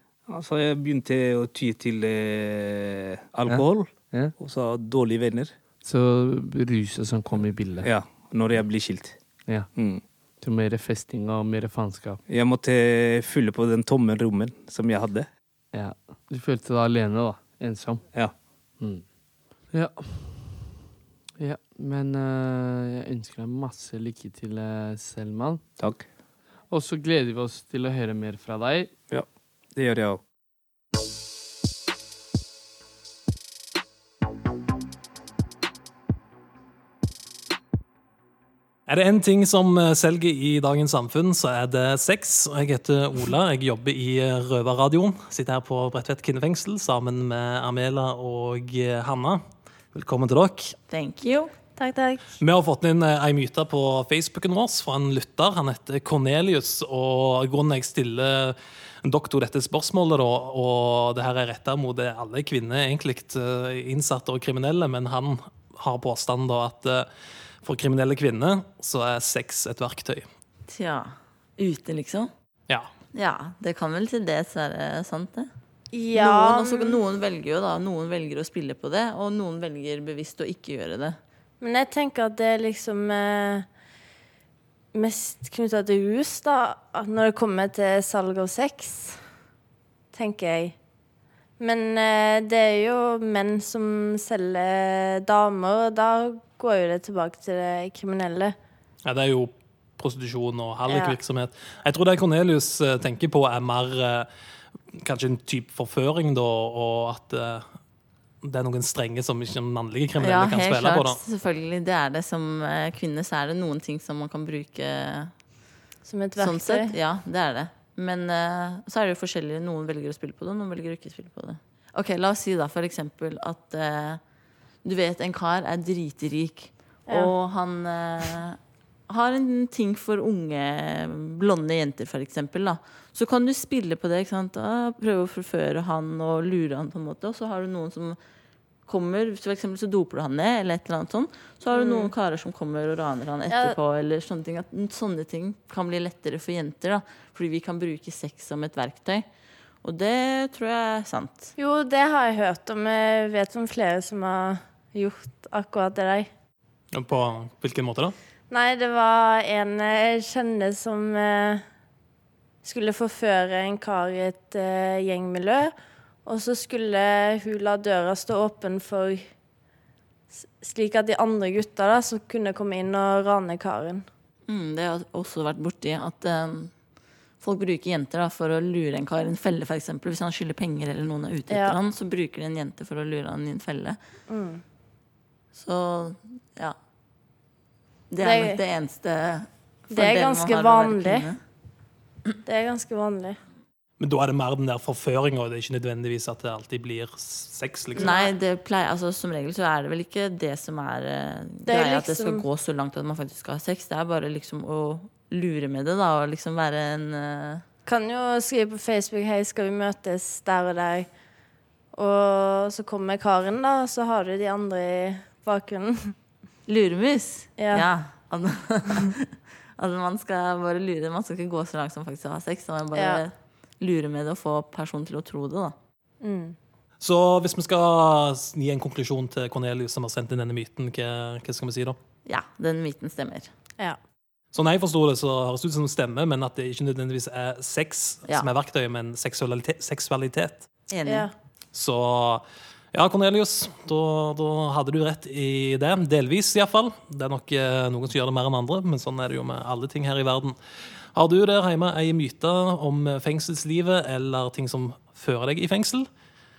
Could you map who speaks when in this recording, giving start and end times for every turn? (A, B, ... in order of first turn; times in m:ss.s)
0:00.3-0:05.5 A
0:03.5-0:04.3 B
0:05.8-0:07.9 B
0:07.8-0:09.2 A
0:09.8-0:10.0 A
0:10.4-0:12.2 B
0:12.3-0:15.3 A
0:15.7-0:18.0 B
0:19.7-0:20.5 B
0:21.4-0:25.6 B
0:25.8-0:26.0 A
0:26.7-0:28.9 B
0:29.1-0:30.2 A
0:38.9-0:49.4 C
0:50.0-0:50.7 C
0:50.9-0:51.5 D
0:51.8-0:52.2 E
0:52.4-1:07.1 C
1:07.6-1:10.3 C
1:10.7-1:12.3 D
1:13.1-1:15.5 D
1:15.9-1:17.0 E
1:16.2-1:21.2 D
1:21.6-1:23.7 E
1:24.9-1:29.2 E
1:30.1-1:30.8 E
1:31.6-1:38.6 E
1:39.0-1:44.3 C
1:40.9-1:41.2 E
1:45.0-1:47.8 C
1:48.4-1:51.2 C
1:50.2-1:55.3 D
1:56.0-1:57.0 E
1:56.4-2:04.2 D
2:04.8-2:08.6 D
2:09.1-2:18.2 D
2:18.9-2:29.3 D
2:21.7-2:22.1 E
2:23.5-2:23.8 E
2:29.8-2:31.5 D
2:31.6-2:36.3 E
2:36.9-2:38.2 C
2:38.5-2:41.6 E
2:42.6-2:45.7 E
2:46.2-2:49.3 E
2:50.6-2:54.1 E
2:54.5-2:56.7 D
2:57.4-3:04.0 D
3:01.5-3:01.8 E
3:04.3-3:04.6 E
3:05.5-3:06.8 D
3:08.1-3:11.4 D
3:08.2-3:08.6 E
3:09.9-3:11.3 E
3:12.5-3:13.4 E
3:14.0-3:18.2 C
3:18.0-3:18.3 E
3:18.0-3:27.6 D
3:21.7-3:22.5 E
3:27.9-3:31.1 E
3:31.9-3:36.1 E
3:36.7-3:45.8 D
3:37.6-3:37.9 E
3:42.9-3:43.2 E
3:46.2-3:46.6 E
3:47.0-3:52.0 C
3:52.2-3:53.5 D
3:54.5-4:00.7 C
4:00.9-4:01.3 D
4:01.1-4:01.3 E
4:01.7-4:10.6 C
4:11.1-4:16.1 C